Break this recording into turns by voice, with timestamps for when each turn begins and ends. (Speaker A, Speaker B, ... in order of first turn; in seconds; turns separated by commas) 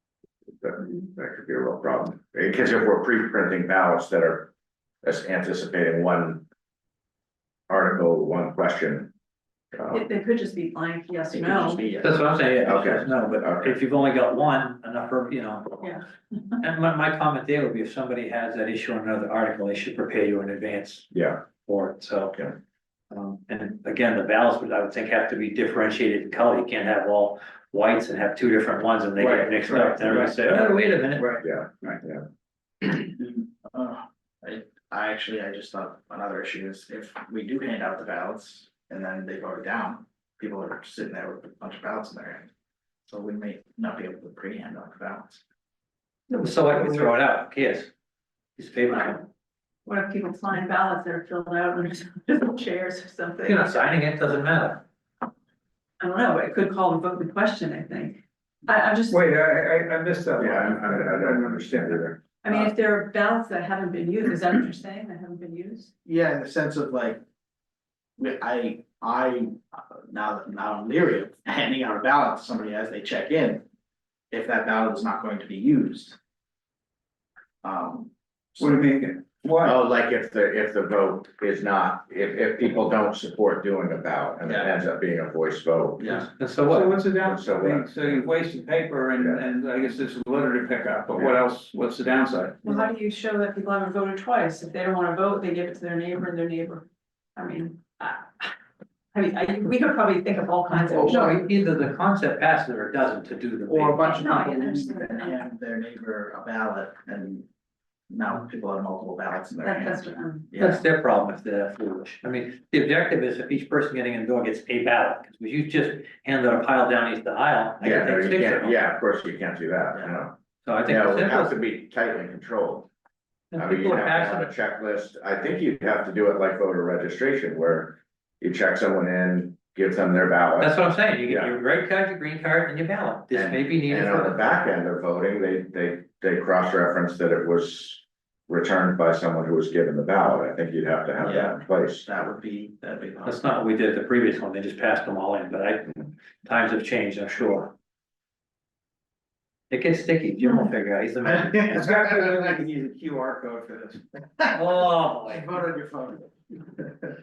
Speaker A: 0.6-4.5, Speaker A: 5.0-6.5, Speaker A: 7.7-9.1, Speaker A: 9.7-10.0, Speaker B: 9.9-11.9, Speaker C: 11.3-12.7, Speaker D: 12.0-15.9, Speaker A: 12.6-13.8, Speaker B: 15.8-16.6, Speaker D: 16.6-22.4, Speaker A: 21.1-21.4, Speaker D: 23.1-31.3, Speaker E: 29.2-32.0, Speaker A: 31.4-32.3, Speaker C: 32.8-42.5, Speaker C: 43.1-45.4, Speaker D: 46.3-47.9, Speaker D: 48.6-49.2, Speaker B: 49.9-53.8, Speaker D: 53.5-54.8, Speaker B: 56.0-59.2, Speaker E: 59.1-62.6, Speaker A: 60.4-62.2, Speaker B: 62.4-65.9, Speaker C: 66.0-67.2, Speaker C: 68.2-73.7, Speaker C: 74.3-76.2, Speaker C: 77.6-78.8, Speaker E: 78.6-79.8, Speaker A: 79.6-86.2, Speaker C: 84.4-84.7, Speaker C: 86.0-86.3, Speaker D: 86.1-87.0, Speaker E: 86.7-92.8, Speaker A: 87.2-88.2, Speaker A: 89.2-89.4, Speaker B: 92.6-98.5, Speaker B: 99.1-101.4, Speaker D: 100.9-104.2, Speaker C: 103.7-107.5, Speaker B: 104.0-105.4, Speaker C: 108.1-110.8, Speaker B: 109.6-110.5, Speaker D: 110.6-118.8, Speaker A: 117.8-122.9, Speaker D: 120.6-121.5, Speaker D: 123.5-124.5, Speaker A: 123.6-131.6, Speaker D: 130.6-134.4, Speaker A: 133.3-142.1, Speaker C: 141.2-143.5, Speaker D: 143.2-147.7, Speaker D: 149.7-152.0, Speaker E: 151.7-154.0, Speaker D: 154.5-155.6, Speaker C: 155.6-156.2